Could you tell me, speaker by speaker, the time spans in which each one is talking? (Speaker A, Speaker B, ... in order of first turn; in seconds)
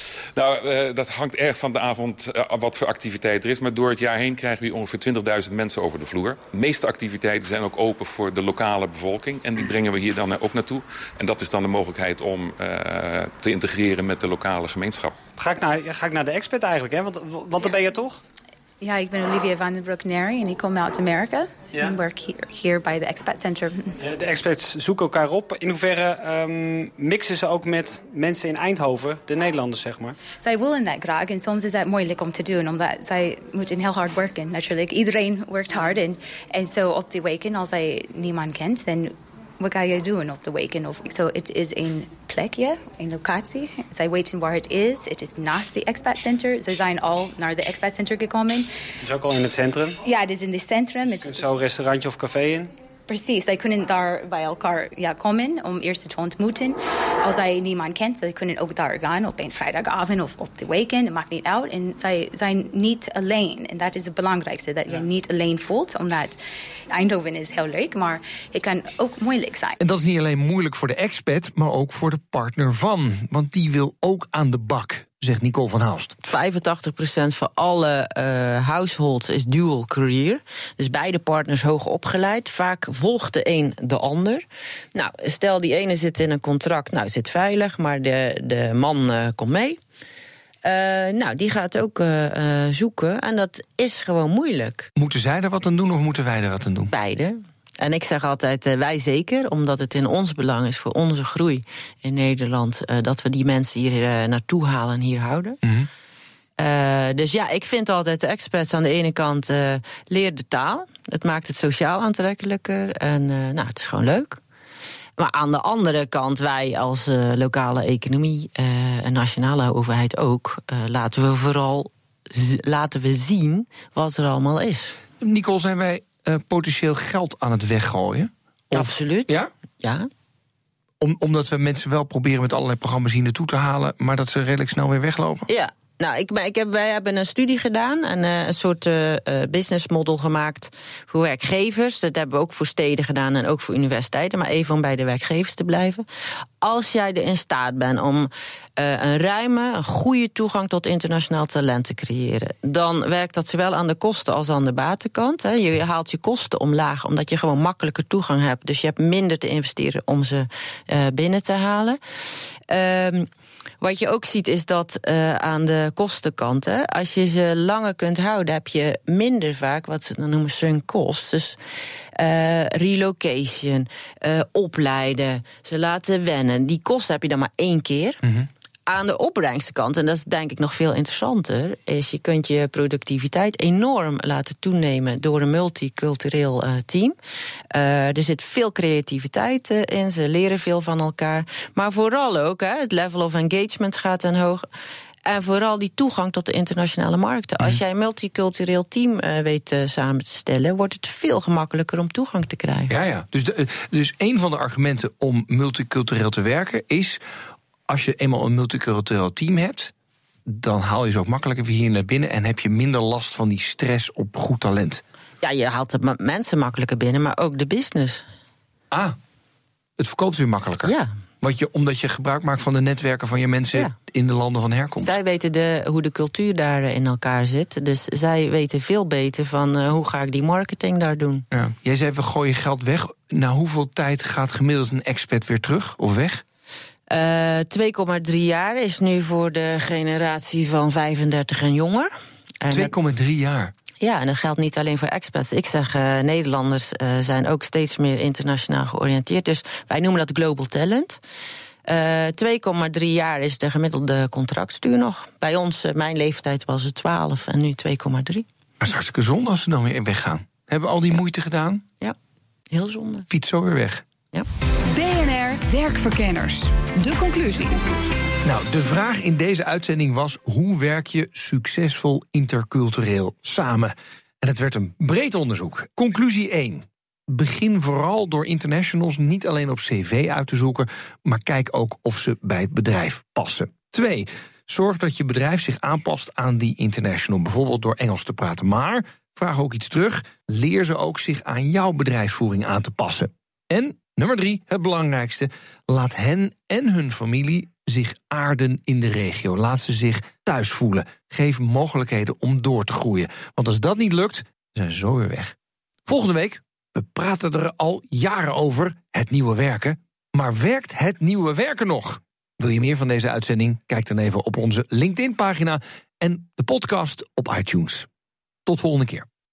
Speaker A: 0.3-15.2
Speaker B: 15.3-18.2, 21.7-22.0, 24.0-30.1, 49.0-50.0, 51.1-52.7
Speaker C: 18.8-23.9, 30.3-48.7, 50.0-51.5, 53.1-66.4, 66.9-69.8
Speaker D: 69.8-76.1, 95.0-96.9, 105.6-105.9, 125.2-129.5, 131.0-135.5, 202.9-207.2, 207.9-209.9, 210.5-215.0, 218.9-219.2, 220.0-225.1, 231.5-236.4, 242.7-243.7, 258.8-261.8, 263.3-264.1, 268.4-305.6, 306.1-318.1, 318.6-319.3
Speaker E: 76.2-89.8, 90.6-94.9, 96.9-105.6, 106.6-114.4, 115.2-125.0, 128.7-130.1, 135.5-146.0, 146.6-162.0, 162.7-163.3, 163.8-171.6, 172.1-178.2, 178.9-187.2, 187.7-194.6, 195.2-202.9, 215.4-218.2, 220.8-221.1, 225.0-231.4, 237.1-242.9, 244.0-251.2, 251.8-258.4, 262.7-263.3
Speaker F: 264.9-267.8